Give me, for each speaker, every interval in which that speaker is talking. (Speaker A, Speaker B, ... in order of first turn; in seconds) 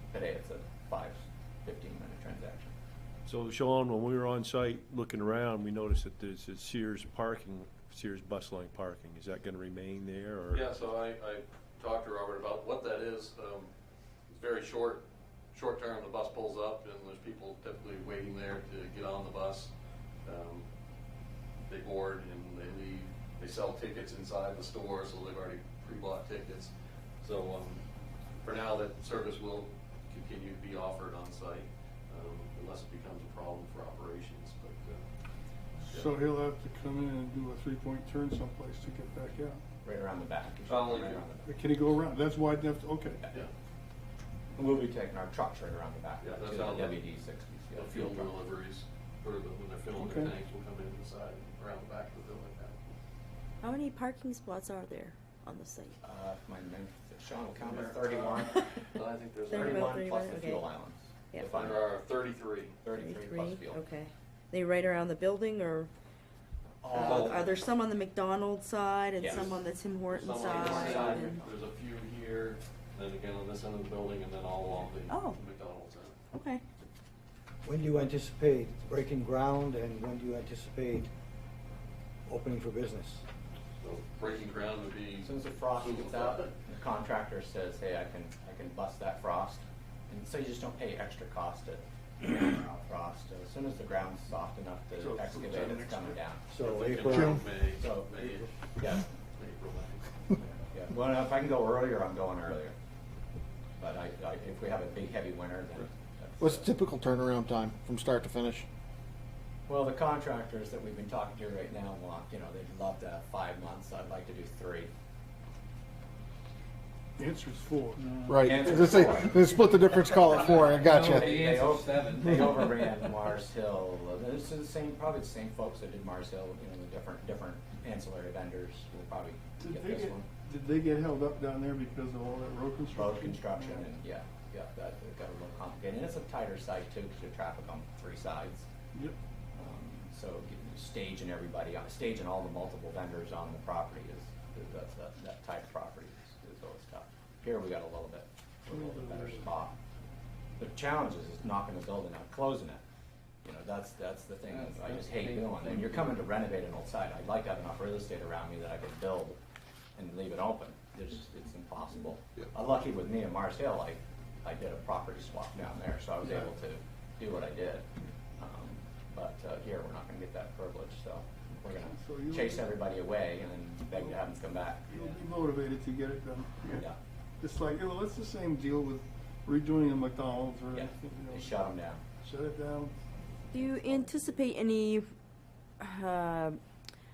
Speaker A: 0.1-2.7, 39.8-41.5, 44.5-48.3, 56.0-58.7, 59.5-61.9, 62.8-63.8, 66.8-67.5, 69.2-69.6, 70.4-71.4, 85.2-96.5, 97.8-99.0, 100.7-102.7, 103.8-106.7, 109.7-114.9, 118.4-119.5, 120.1-130.3, 132.9-138.7, 139.5-149.7, 150.6-152.8, 153.4-159.4, 159.9-167.9, 168.4-175.2, 180.7-182.0
Speaker B: 3.2-10.8, 120.8-122.5
Speaker C: 10.5-13.7, 14.3-19.7, 20.2-20.6, 21.6-27.8, 28.4-35.0, 35.9-36.1, 40.7-41.2, 46.2-47.0, 47.7-52.8, 57.6-59.9, 61.5-62.8, 67.0-67.4, 69.2-76.1, 83.8-86.5, 96.6-100.1
Speaker D: 35.9-39.6, 41.4-43.2, 49.9-50.3, 95.0-96.2, 117.2-118.0, 129.6-133.9, 148.7-149.5, 171.8-172.8, 173.9-174.2, 174.9-176.9, 177.4-181.7, 182.2-182.9, 183.6-184.1
Speaker E: 53.6-56.0, 59.5-60.6, 62.9-65.9, 66.9-71.4, 75.1-75.4, 76.3-76.6, 183.5-185.1, 185.8-186.6
Speaker F: 77.6-81.1, 82.3-83.2, 96.5-97.5
Speaker G: 106.4-108.7, 118.3-121.5